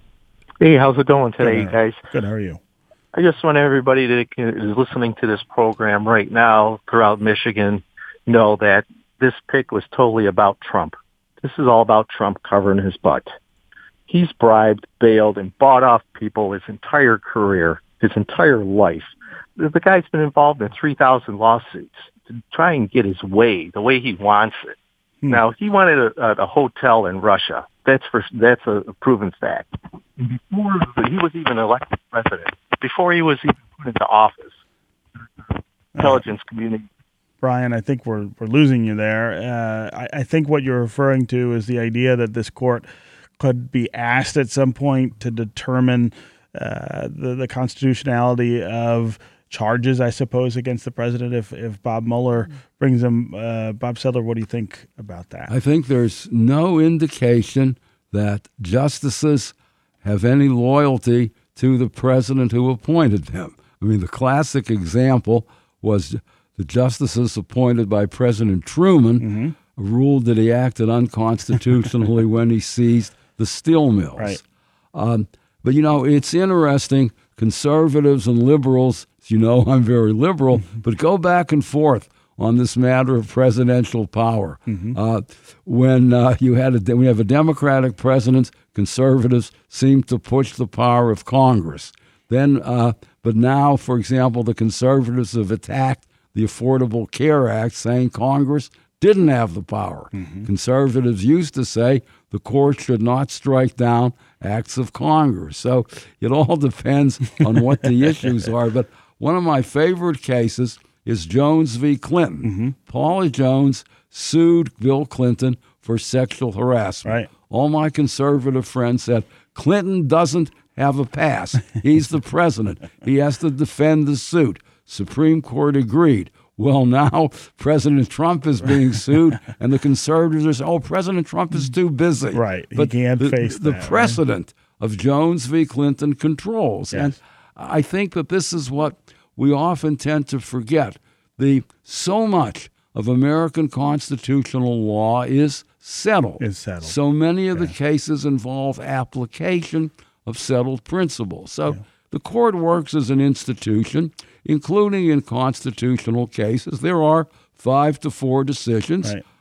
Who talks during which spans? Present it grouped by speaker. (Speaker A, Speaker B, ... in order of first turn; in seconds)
Speaker A: 0.6-2.0, 3.1-13.3, 14.1-24.7, 25.3-34.5, 36.0-36.9
Speaker B: 1.4-2.6, 35.9-36.2, 37.4-42.9, 43.4-55.5, 69.2-69.5, 84.7-85.0, 100.2-100.5, 112.4-112.7, 117.0-117.3, 132.3-134.2, 146.4-146.9
Speaker C: 55.5-74.4, 74.9-159.2